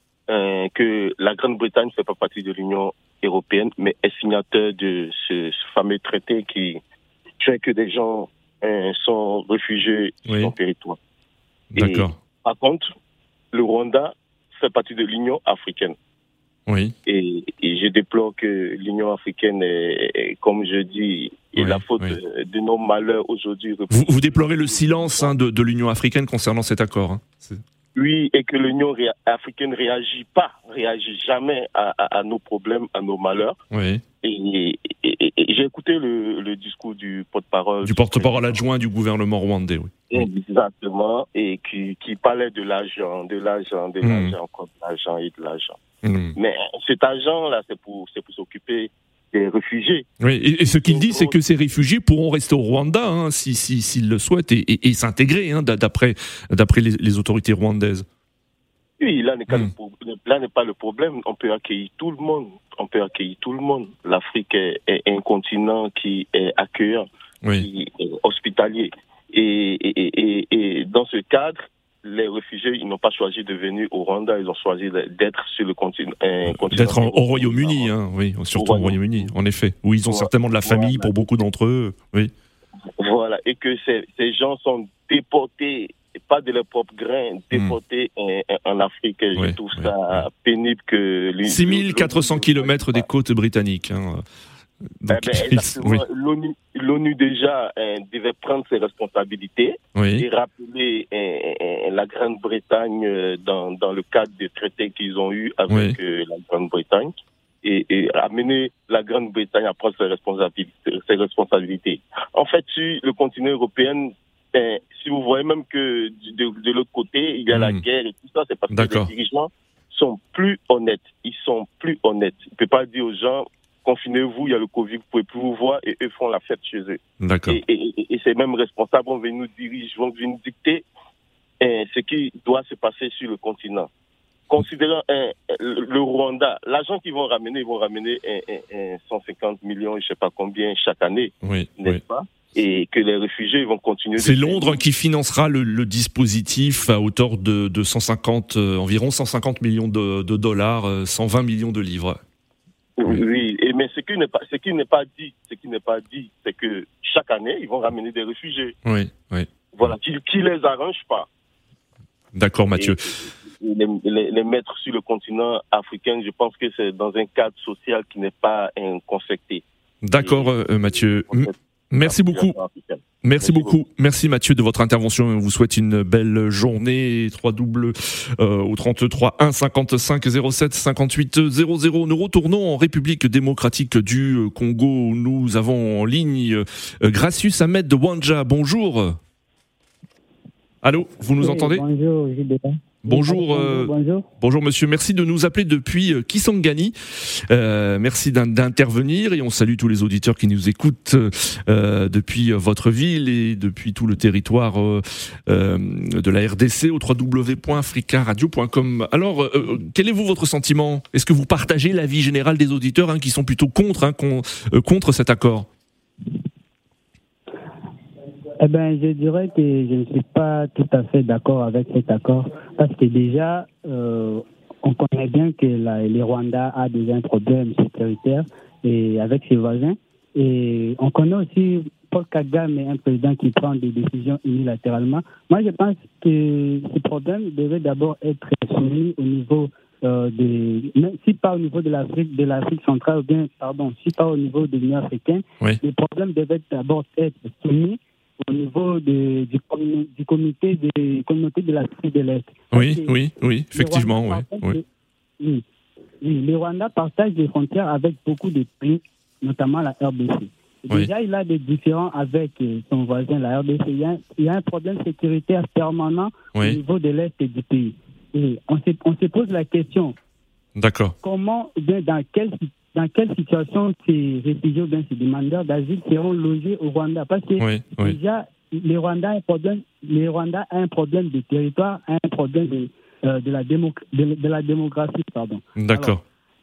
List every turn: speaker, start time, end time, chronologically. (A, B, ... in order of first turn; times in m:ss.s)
0:00.3-0:06.8 A
0:07.4-0:11.0 A
0:10.3-0:10.5 B
0:11.7-0:12.2 B
0:11.8-0:12.9 A
0:13.5-0:16.0 A
0:16.7-0:16.9 B
0:17.1-0:25.4 A
0:21.6-0:22.2 B
0:23.9-0:27.6 B
0:27.9-0:33.6 A
0:33.7-0:34.0 B
0:34.2-0:38.6 A
0:37.8-0:40.2 B
0:40.1-0:45.8 A
0:44.0-0:44.4 B
0:46.0-0:46.4 B
0:46.4-0:50.1 A
0:50.2-0:58.1 B
0:50.7-0:51.4 A
0:59.0-1:07.0 A
1:07.6-1:17.9 A
1:16.5-1:22.3 B
1:18.6-1:19.3 A
1:20.1-1:21.4 A
1:23.0-1:33.1 A
1:29.4-1:30.2 B
1:31.4-1:34.2 B
1:35.0-1:36.0 B
1:35.1-1:47.1 A
1:39.9-1:40.2 B
1:45.7-1:46.0 B
1:47.6-2:10.9 A
1:57.5-1:57.8 B
1:58.7-1:59.1 B
2:07.2-2:07.6 B
2:11.6-2:13.9 A
2:14.5-2:24.8 A
2:21.4-2:22.0 B
2:24.2-2:32.2 B
2:33.0-2:38.8 A
2:38.8-2:39.9 B
2:39.7-2:41.3 A
2:42.3-2:43.2 B
2:42.8-2:53.8 A
2:50.0-2:52.6 B
2:53.2-3:09.2 B
3:10.8-3:11.8 B
3:11.4-3:14.3 C
3:13.0-3:35.7 B
3:38.6-4:13.2 C
4:12.7-4:14.8 B
4:13.7-4:14.8 C
4:16.2-4:30.2 C
4:30.8-4:31.1 B
4:31.2-4:46.2 C
4:37.6-4:38.2 B
4:45.8-4:46.2 B